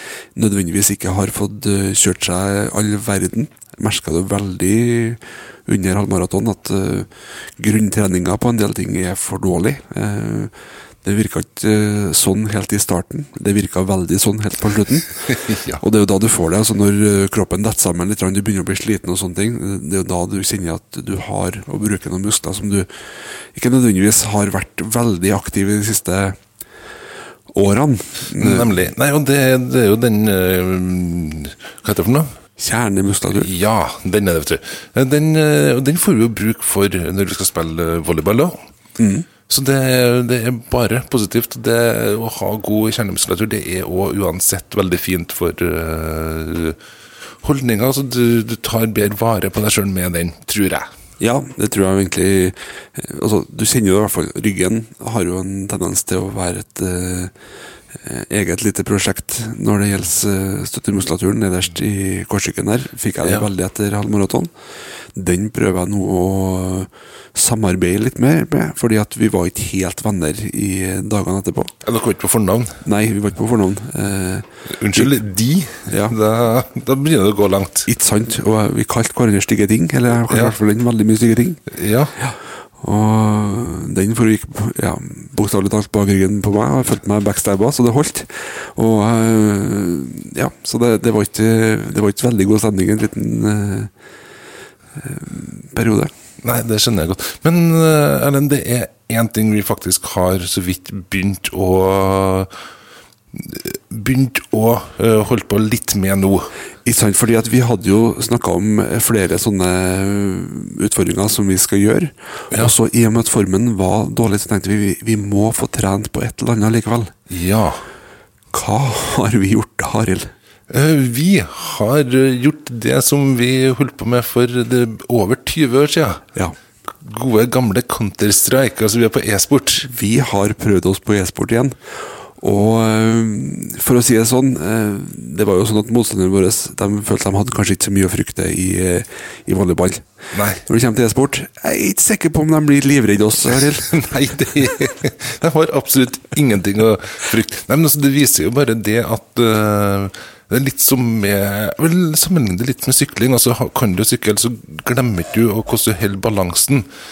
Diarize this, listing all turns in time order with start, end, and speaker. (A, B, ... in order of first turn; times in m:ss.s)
0:00.4-0:10.5 A
0:11.0-0:22.9 A
0:15.4-0:15.8 B
0:23.5-0:26.4 A
0:27.5-0:28.7 A
0:28.4-0:32.3 B
0:32.6-0:33.5 A
0:33.3-0:38.6 B
0:39.0-0:39.3 A
0:39.5-0:46.8 B
0:47.4-0:50.8 B
0:51.2-0:57.3 A
0:58.0-1:04.5 A
1:03.2-1:03.5 B
1:05.2-1:11.7 A
1:11.8-1:12.8 B
1:12.8-1:15.2 A
1:14.8-1:17.9 B
1:15.9-1:16.2 A
1:17.9-1:21.6 A
1:20.3-1:20.6 B
1:21.7-1:22.1 B
1:22.2-1:33.9 A
1:35.0-1:36.1 A
1:36.4-1:42.5 B
1:43.3-1:46.5 B
1:46.8-1:57.1 A
1:57.3-1:57.8 B
1:58.5-2:00.3 A
2:00.7-2:06.2 B
2:07.0-2:09.9 B
2:09.8-2:11.8 A
2:12.4-2:20.0 A
2:20.3-2:20.6 B
2:20.7-2:23.9 A
2:23.9-2:36.9 B